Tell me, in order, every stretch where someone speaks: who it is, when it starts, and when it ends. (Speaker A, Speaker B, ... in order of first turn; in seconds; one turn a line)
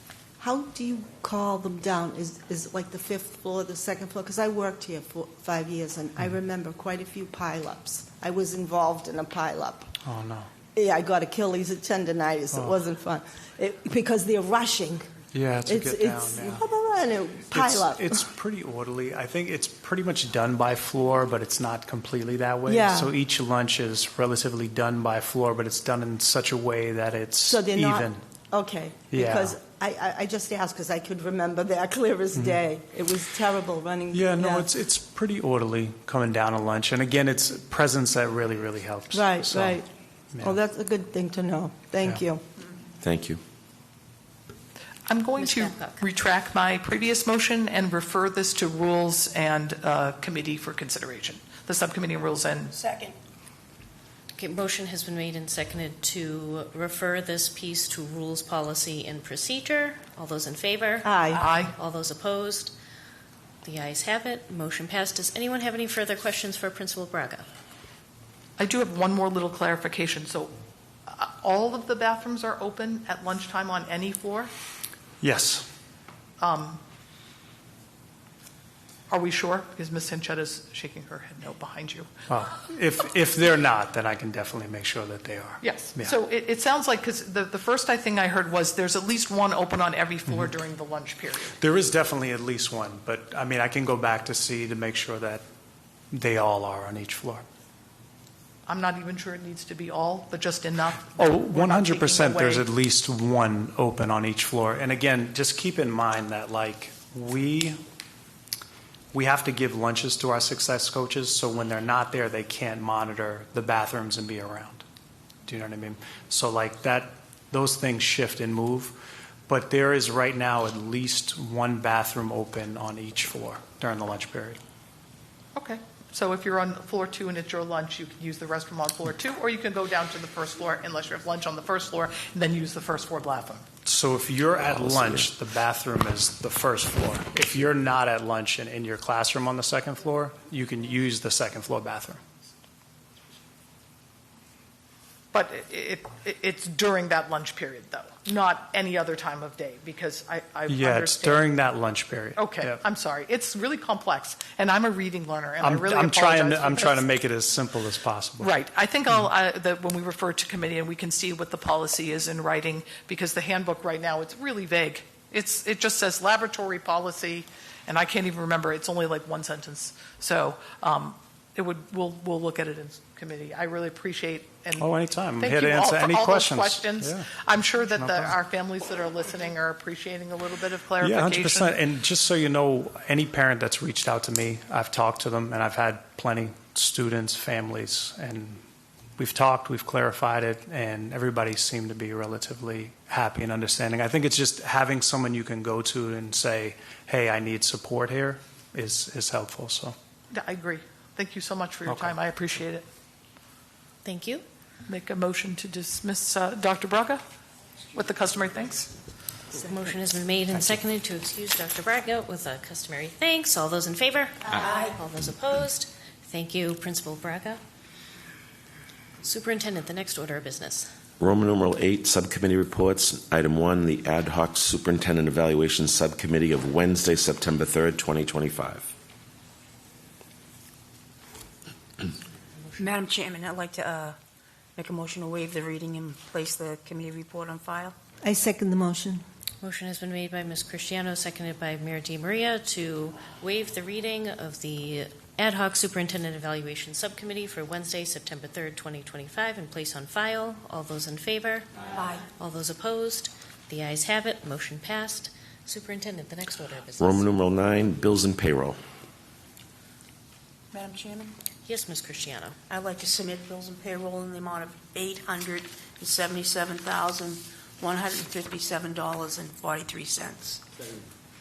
Speaker A: 0.4-9.9
Speaker B: 10.0-10.5
Speaker A: 10.8-15.1
Speaker B: 12.5-12.8
Speaker B: 15.3-16.7
Speaker A: 15.7-18.2
Speaker B: 17.5-28.2
Speaker A: 22.7-23.1
Speaker A: 27.5-34.7
Speaker B: 29.1-29.6
Speaker B: 34.1-39.8
Speaker A: 39.1-39.9
Speaker A: 40.4-42.4
Speaker C: 43.0-43.4
Speaker D: 45.1-52.8
Speaker E: 45.4-46.0
Speaker F: 52.8-53.1
Speaker E: 54.4-62.7
Speaker A: 61.0-61.4
Speaker D: 61.3-61.8
Speaker E: 63.6-67.5
Speaker D: 68.6-70.5
Speaker D: 71.1-74.5
Speaker B: 75.2-75.7
Speaker D: 76.4-76.8
Speaker D: 79.1-82.1
Speaker B: 82.3-86.2
Speaker D: 85.6-91.6
Speaker B: 91.6-95.4
Speaker B: 96.1-97.5
Speaker D: 98.7-102.7
Speaker B: 101.1-107.8
Speaker B: 109.1-114.8
Speaker B: 115.5-118.9
Speaker B: 119.5-124.6
Speaker D: 125.5-133.7
Speaker B: 133.8-142.2
Speaker D: 145.3-151.5
Speaker B: 150.7-152.8
Speaker D: 152.4-157.1
Speaker B: 155.6-158.5
Speaker D: 158.4-174.9
Speaker B: 174.8-177.3
Speaker D: 175.4-181.8
Speaker B: 177.9-178.3
Speaker B: 181.0-188.6
Speaker B: 189.2-200.0
Speaker D: 200.3-202.9
Speaker B: 201.9-202.2
Speaker E: 204.0-204.4
Speaker D: 204.9-207.2
Speaker D: 207.9-208.9
Speaker E: 209.6-217.6
Speaker E: 219.2-220.9
Speaker C: 221.2-228.9
Speaker F: 232.8-234.2
Speaker F: 234.8-237.9
Speaker A: 238.2-239.2
Speaker E: 239.6-251.7
Speaker F: 251.9-252.3
Speaker E: 252.4-257.2
Speaker C: 257.0-258.8
Speaker F: 260.7-261.3
Speaker E: 261.7-262.6
Speaker F: 262.7-270.6